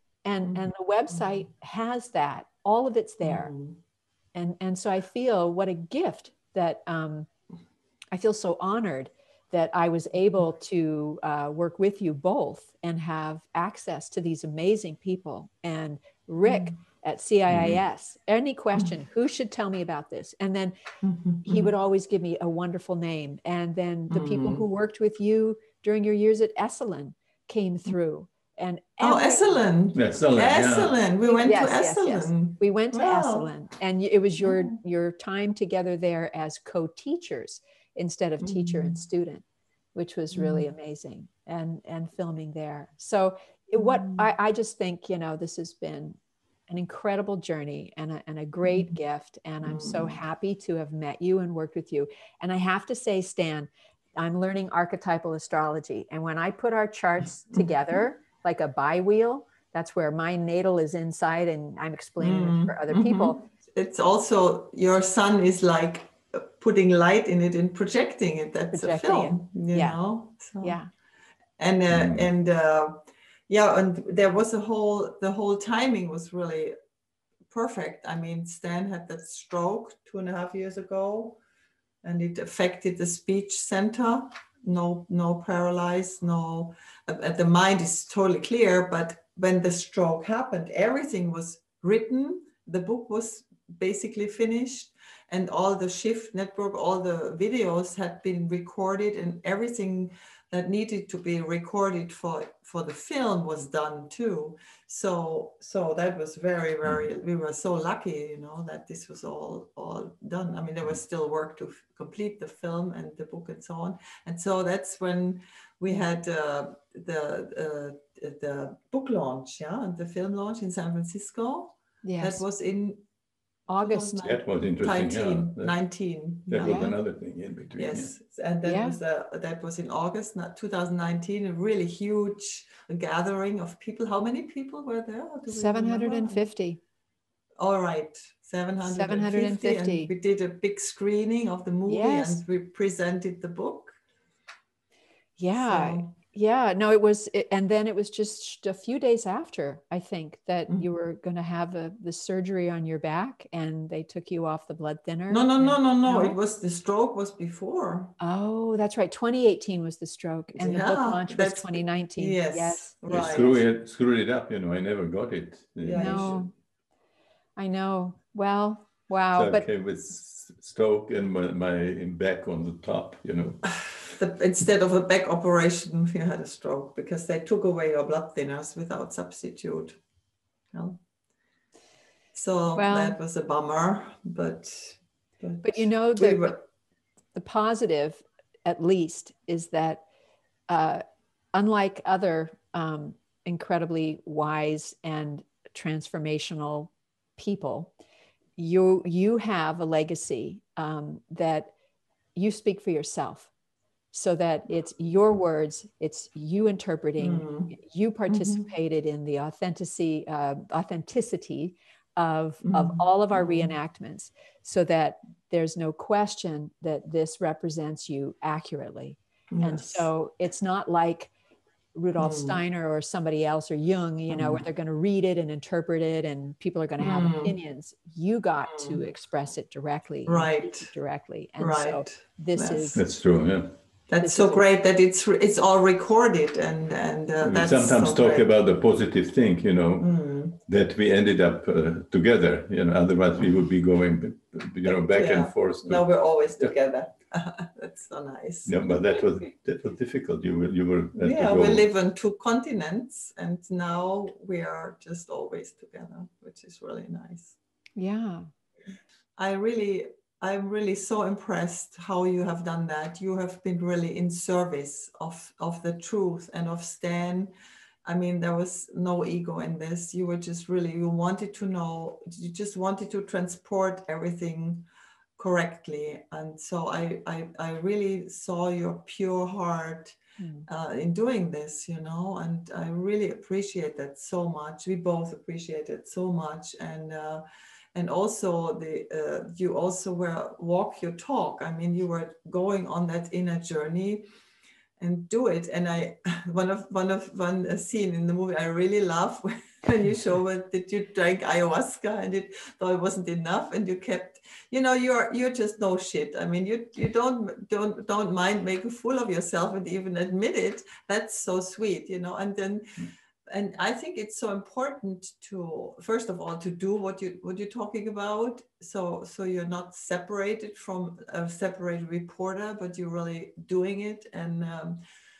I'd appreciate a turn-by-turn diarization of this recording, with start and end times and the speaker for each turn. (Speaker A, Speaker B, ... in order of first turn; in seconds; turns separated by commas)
Speaker A: 0.2-3.5, Speaker B: 0.4-1.4, Speaker B: 3.2-3.8, Speaker A: 4.3-7.3, Speaker A: 8.1-20.8, Speaker B: 16.4-16.7, Speaker C: 17.5-17.8, Speaker B: 21.0-21.7, Speaker A: 21.4-29.6, Speaker B: 24.1-24.6, Speaker B: 29.0-33.5, Speaker C: 29.9-31.0, Speaker A: 31.2-39.4, Speaker B: 34.4-34.8, Speaker B: 38.4-39.0, Speaker A: 39.9-46.2, Speaker B: 40.3-40.7, Speaker B: 43.8-44.2, Speaker A: 46.7-63.4, Speaker B: 49.6-50.2, Speaker B: 62.2-70.8, Speaker A: 68.7-70.0, Speaker A: 70.6-70.9, Speaker B: 71.6-76.7, Speaker C: 71.9-72.3, Speaker B: 77.5-81.4, Speaker B: 82.0-123.0, Speaker A: 122.0-122.4, Speaker A: 123.7-124.2, Speaker B: 123.8-126.9, Speaker C: 124.2-125.7, Speaker C: 126.5-128.1, Speaker A: 126.6-127.0, Speaker B: 127.8-136.4, Speaker A: 128.6-129.0, Speaker A: 135.5-136.8, Speaker B: 137.6-144.0, Speaker A: 138.8-140.1, Speaker A: 141.9-142.4, Speaker A: 145.4-156.3, Speaker B: 145.6-146.1, Speaker B: 155.3-158.1, Speaker A: 158.2-162.9, Speaker B: 160.6-163.6, Speaker C: 163.1-166.3, Speaker B: 165.8-166.4, Speaker A: 165.9-166.5, Speaker A: 167.6-169.7, Speaker C: 169.3-173.7, Speaker B: 174.1-180.0, Speaker B: 180.7-181.0, Speaker B: 182.3-186.6, Speaker A: 182.7-183.2, Speaker A: 185.6-186.6, Speaker A: 187.3-190.0, Speaker A: 190.7-191.0, Speaker A: 191.5-197.9, Speaker A: 198.6-201.7, Speaker A: 202.3-203.5, Speaker A: 204.1-221.3, Speaker B: 207.2-207.7, Speaker B: 208.3-208.7, Speaker B: 212.6-213.7, Speaker B: 219.5-220.1, Speaker A: 221.9-233.0, Speaker B: 222.2-222.6, Speaker B: 224.3-224.6, Speaker B: 227.0-227.5, Speaker B: 228.7-229.0, Speaker B: 230.3-230.9, Speaker B: 231.6-233.0, Speaker C: 232.9-233.7, Speaker B: 234.1-238.5, Speaker A: 234.2-234.6, Speaker C: 237.4-240.1, Speaker B: 240.0-240.6, Speaker C: 240.7-246.7, Speaker B: 244.8-248.9, Speaker C: 248.7-251.8, Speaker B: 251.2-257.6, Speaker A: 258.0-258.5, Speaker B: 259.4-267.5, Speaker B: 268.0-274.9, Speaker B: 275.4-287.4, Speaker A: 280.4-280.6, Speaker B: 287.9-294.2, Speaker B: 295.0-325.0